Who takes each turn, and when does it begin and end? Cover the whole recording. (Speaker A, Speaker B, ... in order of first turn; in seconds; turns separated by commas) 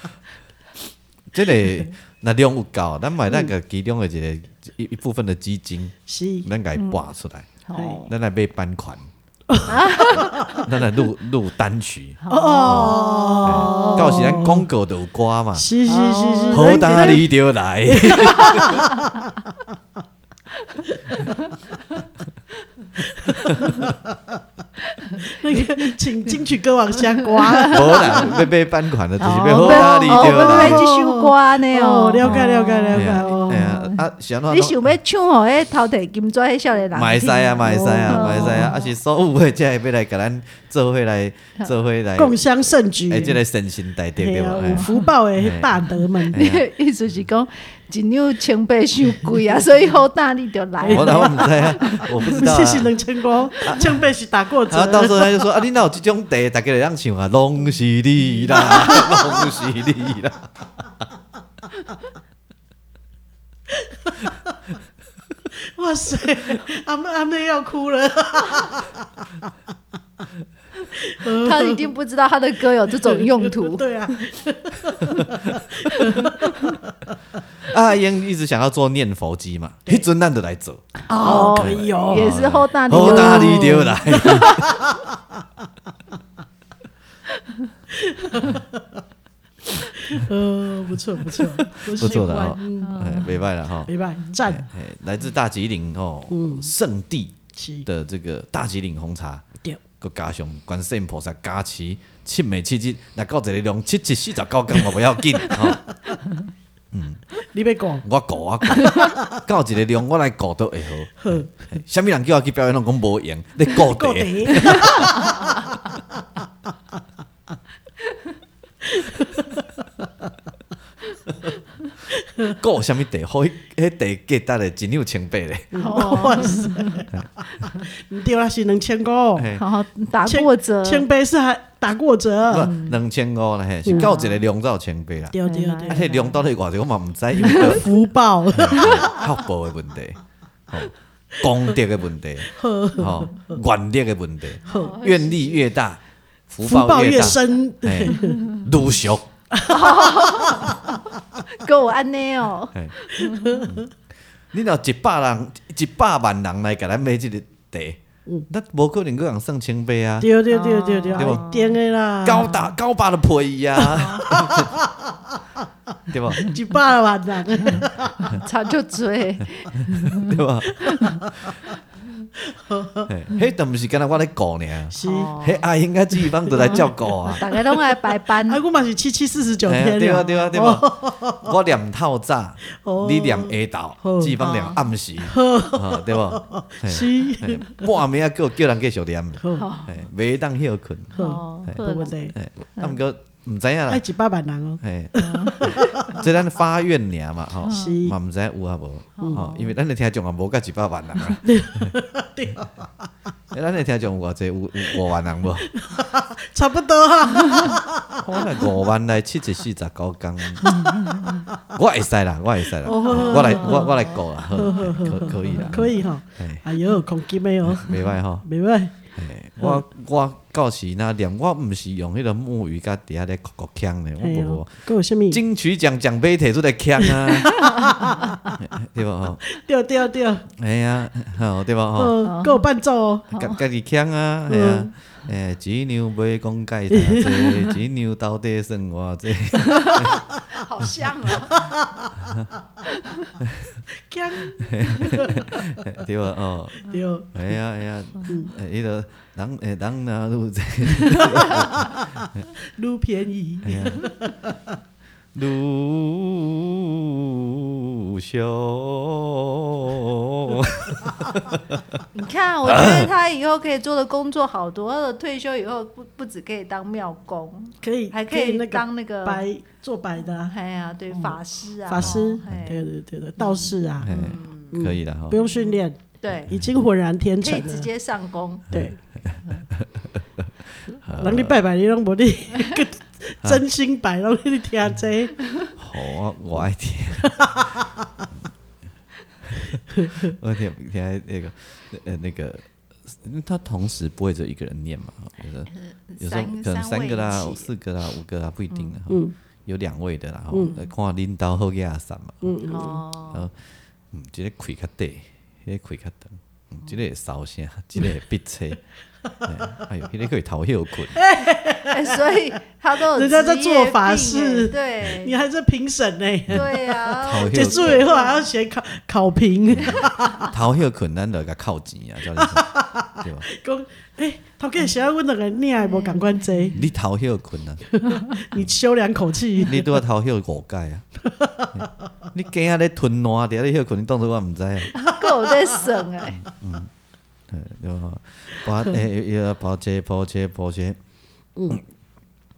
Speaker A: 1.3-9.1, Speaker B: 6.1-6.5, Speaker C: 7.7-8.1, Speaker B: 7.8-8.0, Speaker B: 9.5-10.7, Speaker C: 9.6-10.6, Speaker A: 9.6-15.7, Speaker C: 12.2-14.3, Speaker B: 12.3-14.7, Speaker B: 15.6-17.3, Speaker C: 15.9-17.2, Speaker A: 16.5-18.9, Speaker B: 17.9-19.4, Speaker C: 18.1-18.8, Speaker C: 20.7-21.5, Speaker B: 23.0-24.4, Speaker C: 24.9-25.8, Speaker B: 25.2-28.4, Speaker C: 27.1-28.3, Speaker A: 27.7-30.9, Speaker C: 29.2-38.9, Speaker B: 29.5-33.8, Speaker A: 32.2-34.8, Speaker A: 36.9-42.4, Speaker B: 37.6-38.7, Speaker B: 42.2-43.4, Speaker A: 43.1-45.8, Speaker B: 44.2-46.4, Speaker C: 44.8-45.0, Speaker A: 46.3-46.7, Speaker C: 46.3-52.4, Speaker B: 50.8-55.5, Speaker A: 50.9-53.0, Speaker A: 53.6-54.0, Speaker A: 54.7-60.5, Speaker B: 58.4-59.6, Speaker B: 63.7-64.5, Speaker B: 65.5-69.5, Speaker B: 70.9-71.9, Speaker C: 71.3-73.8, Speaker B: 72.9-77.1, Speaker C: 75.9-76.7, Speaker A: 77.7-84.7, Speaker B: 81.1-85.4, Speaker C: 81.1-84.7, Speaker B: 87.9-89.0, Speaker B: 89.7-93.3, Speaker A: 91.7-93.9, Speaker C: 92.8-93.4, Speaker B: 93.9-94.7, Speaker A: 94.4-99.5, Speaker B: 96.3-96.7, Speaker B: 97.5-97.8, Speaker A: 100.0-105.9, Speaker B: 105.5-106.2, Speaker A: 106.9-107.2, Speaker B: 107.5-108.0, Speaker A: 108.0-115.3, Speaker B: 108.7-109.4, Speaker B: 111.2-111.5, Speaker B: 113.7-115.7, Speaker B: 118.8-120.3, Speaker B: 122.1-122.6, Speaker A: 122.5-126.4, Speaker B: 125.7-129.6, Speaker C: 125.8-127.0, Speaker A: 129.4-129.6, Speaker C: 129.6-131.1, Speaker B: 130.2-132.8, Speaker A: 132.5-135.4, Speaker C: 132.6-133.0, Speaker B: 133.8-134.1, Speaker C: 133.9-134.4, Speaker B: 135.3-136.3, Speaker C: 135.4-136.3, Speaker A: 135.9-137.9, Speaker B: 137.4-139.2, Speaker A: 138.5-149.3, Speaker B: 142.5-143.6, Speaker B: 144.7-145.0, Speaker C: 144.7-145.6, Speaker B: 146.6-148.5, Speaker C: 148.1-148.6, Speaker B: 149.5-151.0, Speaker C: 149.7-150.9, Speaker C: 151.5-153.6, Speaker B: 153.2-153.9, Speaker A: 153.6-153.9, Speaker A: 154.5-160.3, Speaker B: 160.2-162.7, Speaker C: 160.5-161.8, Speaker A: 161.2-161.4, Speaker A: 162.2-164.8, Speaker B: 163.8-165.4, Speaker C: 163.9-164.3, Speaker A: 166.1-166.5, Speaker B: 166.4-168.3, Speaker C: 168.2-170.3, Speaker A: 169.8-171.5, Speaker B: 170.9-171.1, Speaker C: 170.9-171.2, Speaker B: 172.4-173.1, Speaker A: 173.1-177.4, Speaker B: 174.9-175.4, Speaker C: 175.0-175.6, Speaker B: 176.1-181.6, Speaker C: 176.6-178.6, Speaker A: 179.7-191.8, Speaker B: 182.8-184.5, Speaker C: 184.4-184.8, Speaker B: 185.2-187.8, Speaker B: 189.4-189.7, Speaker C: 189.5-190.0, Speaker B: 191.1-192.3, Speaker C: 191.2-192.1, Speaker A: 192.3-194.0, Speaker B: 193.9-196.2, Speaker A: 194.8-201.9, Speaker C: 195.2-196.2, Speaker C: 197.7-198.0, Speaker B: 197.7-198.2, Speaker C: 199.2-199.7, Speaker B: 199.2-199.5, Speaker B: 201.4-203.1, Speaker A: 203.5-205.7, Speaker B: 204.8-208.8, Speaker A: 208.2-210.9, Speaker B: 210.6-211.6, Speaker C: 210.6-211.4, Speaker A: 211.7-216.7, Speaker B: 212.8-218.9, Speaker C: 212.9-214.9, Speaker C: 215.4-215.8, Speaker A: 217.7-218.5, Speaker A: 219.2-227.7, Speaker B: 224.2-225.4, Speaker B: 227.0-228.5, Speaker A: 228.6-229.4, Speaker B: 229.4-230.5, Speaker A: 230.6-232.2, Speaker B: 231.9-233.3, Speaker C: 232.2-232.6, Speaker C: 233.3-233.6, Speaker A: 233.3-240.2, Speaker B: 234.5-234.9, Speaker B: 236.9-237.7, Speaker C: 239.6-241.6, Speaker B: 241.3-242.3, Speaker A: 242.2-242.5, Speaker C: 243.0-243.3, Speaker A: 243.4-243.8, Speaker B: 243.9-245.8, Speaker A: 244.6-252.3, Speaker B: 246.8-247.4, Speaker B: 248.3-248.5, Speaker B: 251.6-254.8, Speaker A: 253.6-254.1, Speaker A: 255.3-262.0, Speaker C: 262.1-269.4, Speaker A: 262.6-263.1, Speaker B: 267.8-270.5, Speaker C: 270.5-274.8, Speaker B: 271.1-277.9, Speaker A: 272.0-272.7, Speaker A: 274.0-275.4, Speaker C: 276.2-276.5, Speaker C: 277.4-278.6, Speaker B: 278.7-279.0, Speaker A: 278.7-281.5, Speaker B: 281.1-285.4, Speaker A: 285.8-287.6, Speaker B: 287.2-288.3, Speaker A: 289.5-302.6, Speaker B: 289.9-290.4, Speaker C: 295.7-297.7, Speaker B: 299.1-299.3, Speaker B: 300.5-300.8, Speaker B: 302.4-303.0, Speaker C: 302.7-303.5, Speaker A: 304.1-308.8, Speaker B: 309.3-309.7, Speaker A: 309.4-311.2, Speaker B: 311.1-312.4, Speaker C: 311.9-315.4, Speaker B: 313.1-320.6, Speaker C: 316.5-318.4, Speaker A: 317.2-318.1, Speaker A: 319.8-323.5, Speaker C: 319.8-320.5, Speaker B: 322.4-326.8, Speaker C: 325.8-326.3, Speaker A: 326.7-327.9, Speaker B: 327.9-329.9, Speaker A: 329.7-331.0, Speaker B: 331.2-331.9, Speaker A: 331.8-334.9, Speaker C: 334.9-336.4, Speaker A: 336.4-336.9, Speaker A: 337.5-341.0, Speaker B: 341.6-341.8